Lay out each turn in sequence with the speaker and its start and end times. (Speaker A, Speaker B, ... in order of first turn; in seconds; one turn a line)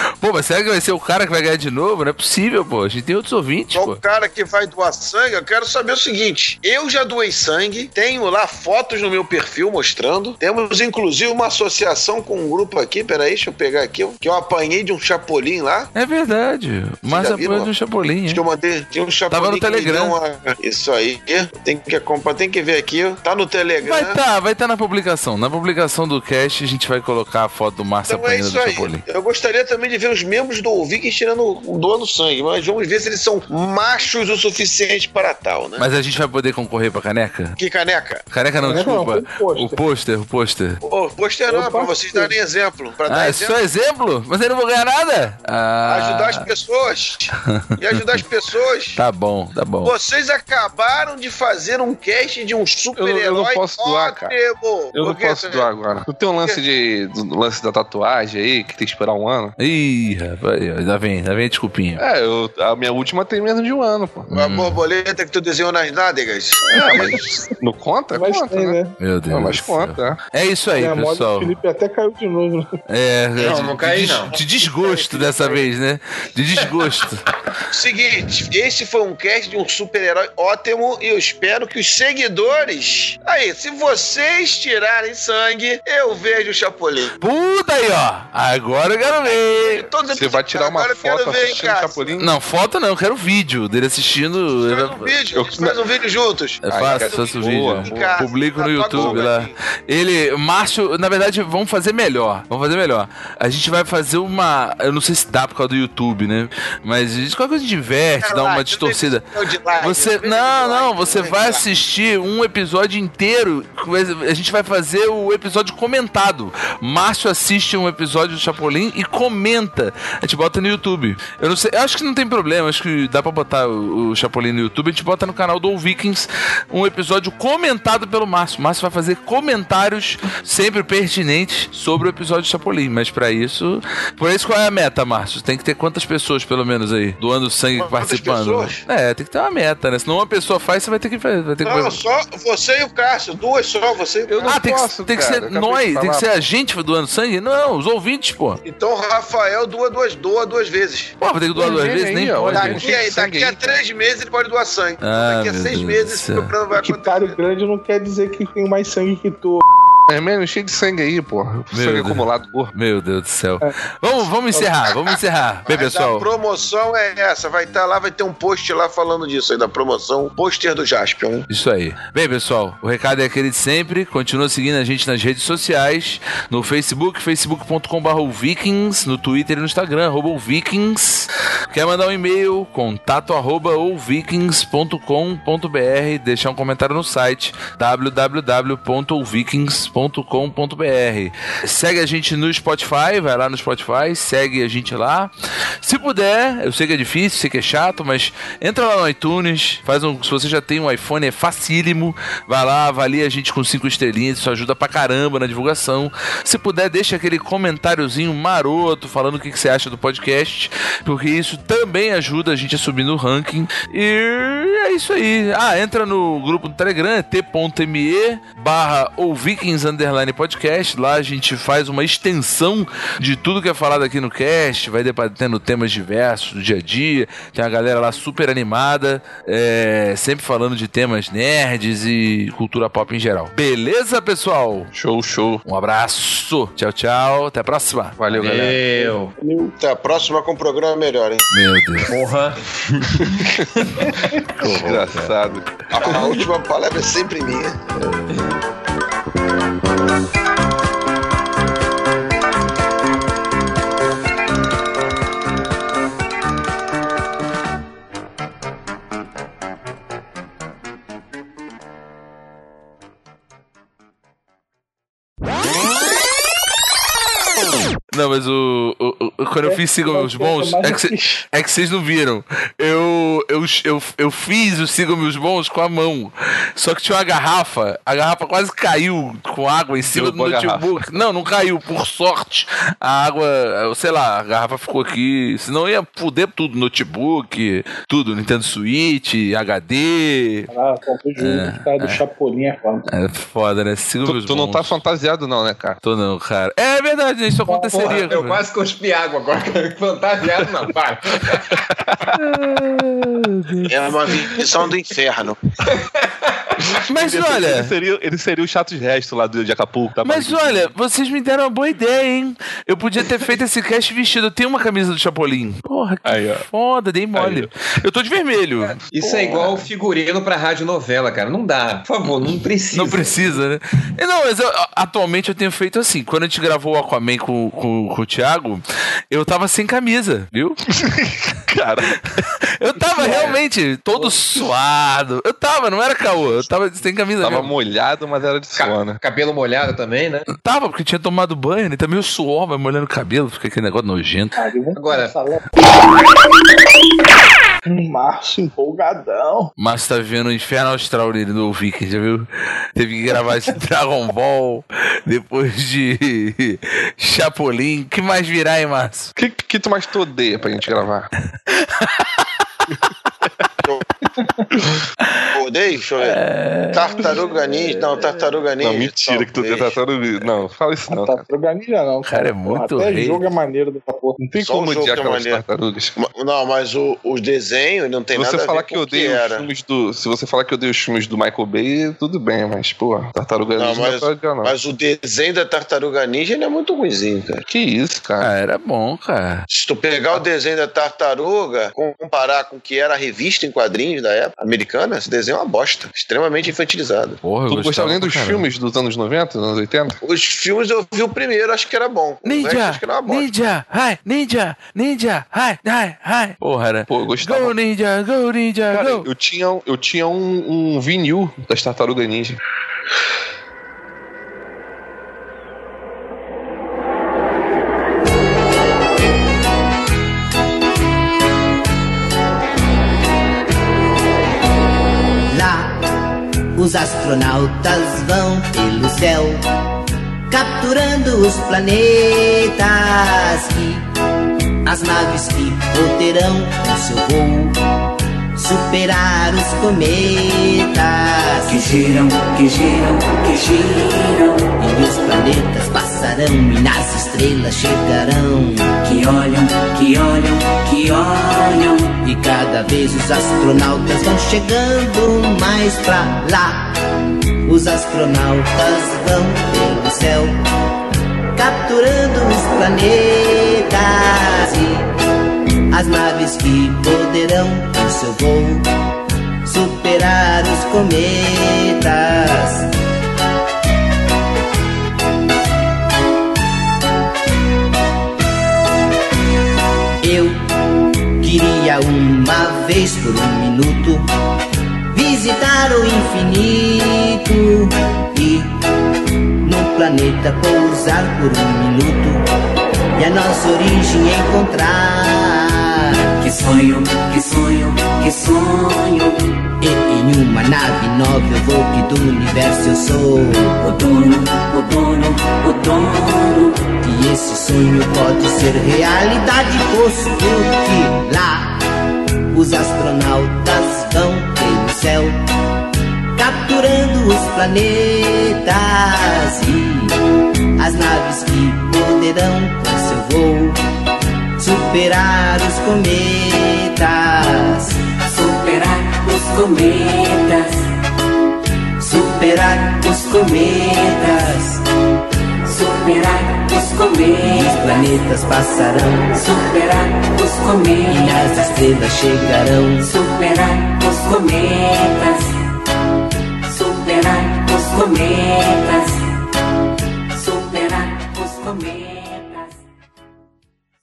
Speaker A: 0.2-4.0
Speaker B: 3.8-15.9
Speaker A: 15.9-18.4
Speaker B: 17.1-17.7
Speaker B: 18.3-24.2
Speaker A: 19.3-20.1
Speaker A: 23.8-29.0
Speaker B: 28.1-35.9
Speaker A: 35.8-37.6
Speaker B: 37.6-38.2
Speaker A: 38.3-40.8
Speaker C: 38.6-39.8
Speaker B: 40.8-43.6
Speaker C: 41.5-42.3
Speaker A: 43.1-46.5
Speaker B: 45.9-49.0
Speaker A: 47.5-48.1
Speaker A: 49.0-49.9
Speaker B: 49.8-55.7
Speaker D: 53.0-54.4
Speaker D: 54.9-59.5
Speaker A: 59.6-62.0
Speaker D: 62.0-64.3
Speaker A: 64.3-64.8
Speaker B: 64.3-67.2
Speaker D: 66.7-68.8
Speaker C: 66.8-67.3
Speaker C: 68.1-68.9
Speaker A: 69.0-71.5
Speaker D: 69.3-70.2
Speaker C: 70.8-72.7
Speaker A: 72.9-77.2
Speaker E: 73.4-74.3
Speaker B: 74.3-75.7
Speaker B: 77.7-87.2
Speaker A: 87.2-89.9
Speaker B: 89.2-92.1
Speaker D: 90.1-92.3
Speaker A: 92.2-95.1
Speaker B: 94.6-99.5
Speaker D: 95.3-95.8
Speaker A: 96.6-109.3
Speaker D: 96.7-98.3
Speaker D: 98.9-99.2
Speaker B: 108.2-111.7
Speaker A: 109.8-142.0
Speaker B: 137.8-138.8
Speaker B: 141.6-144.6
Speaker D: 144.3-146.3
Speaker A: 144.5-148.6
Speaker B: 148.6-151.1
Speaker A: 151.2-152.9
Speaker D: 151.6-153.8
Speaker B: 152.5-157.4
Speaker A: 155.0-156.5
Speaker C: 156.7-159.6
Speaker D: 160.1-162.7
Speaker A: 161.7-166.3
Speaker B: 165.7-171.5
Speaker A: 171.5-234.9
Speaker D: 234.9-235.6
Speaker A: 235.7-238.8
Speaker D: 238.2-238.7
Speaker E: 238.3-239.4
Speaker C: 238.8-239.7
Speaker B: 239.8-241.5
Speaker A: 241.5-242.1
Speaker E: 242.1-243.3
Speaker A: 244.6-245.3
Speaker D: 244.6-246.2
Speaker B: 245.9-247.8
Speaker A: 247.9-248.5
Speaker A: 268.1-290.7
Speaker C: 269.6-271.4
Speaker D: 280.0-280.9
Speaker C: 290.7-293.0
Speaker A: 291.4-292.2
Speaker A: 293.1-295.0
Speaker D: 294.2-296.0
Speaker A: 296.0-298.6
Speaker C: 297.7-298.3
Speaker E: 297.9-301.8
Speaker A: 302.4-304.5
Speaker B: 303.9-305.6
Speaker E: 305.9-306.7
Speaker D: 306.8-310.9
Speaker A: 307.1-307.9
Speaker A: 310.2-319.0
Speaker D: 316.2-316.6
Speaker D: 317.4-317.7
Speaker E: 319.1-323.6
Speaker D: 319.3-319.8
Speaker A: 322.9-330.8
Speaker D: 330.9-332.1
Speaker A: 332.8-337.7
Speaker D: 333.2-333.6
Speaker E: 333.3-333.5
Speaker D: 337.4-339.2
Speaker E: 338.8-340.5
Speaker A: 340.5-344.6
Speaker C: 344.6-345.9
Speaker E: 344.9-345.4
Speaker C: 347.9-349.7
Speaker A: 349.8-359.3
Speaker D: 359.4-361.3
Speaker A: 361.7-362.4
Speaker B: 365.5-366.4
Speaker A: 366.3-367.3
Speaker B: 366.9-370.0
Speaker D: 368.8-371.4
Speaker C: 371.1-374.7
Speaker A: 372.2-373.4
Speaker B: 374.6-375.6
Speaker D: 374.7-376.1
Speaker B: 376.2-379.6
Speaker D: 378.3-384.7
Speaker B: 383.8-387.6
Speaker D: 387.7-388.5
Speaker A: 388.4-389.6
Speaker B: 389.7-397.4
Speaker A: 397.4-398.6
Speaker D: 397.7-400.2
Speaker B: 400.2-403.5
Speaker A: 402.4-409.3
Speaker D: 407.1-407.8
Speaker D: 408.9-412.6
Speaker F: 425.5-425.9
Speaker F: 426.8-429.6
Speaker F: 430.5-434.1
Speaker F: 434.9-437.8
Speaker F: 438.6-441.9
Speaker G: 441.6-444.8
Speaker F: 444.8-448.9
Speaker G: 449.0-452.2
Speaker F: 452.3-456.9
Speaker F: 457.7-460.6
Speaker F: 461.6-465.1
Speaker F: 465.9-468.9
Speaker F: 469.7-472.9
Speaker F: 480.2-480.6
Speaker F: 481.4-484.2
Speaker F: 485.1-488.7
Speaker F: 489.6-492.4
Speaker F: 493.2-495.7
Speaker G: 496.1-499.4
Speaker F: 499.8-503.7
Speaker G: 503.8-506.9
Speaker F: 507.1-511.8
Speaker F: 512.5-515.4
Speaker F: 516.4-520.1
Speaker F: 520.8-523.8
Speaker F: 524.6-528.0
Speaker G: 528.2-530.9
Speaker F: 532.0-534.8
Speaker G: 532.1-534.5
Speaker G: 535.7-538.2
Speaker F: 537.4-539.3
Speaker G: 539.3-541.8
Speaker F: 541.1-543.0
Speaker G: 543.0-545.5
Speaker G: 546.7-549.2
Speaker G: 550.3-552.7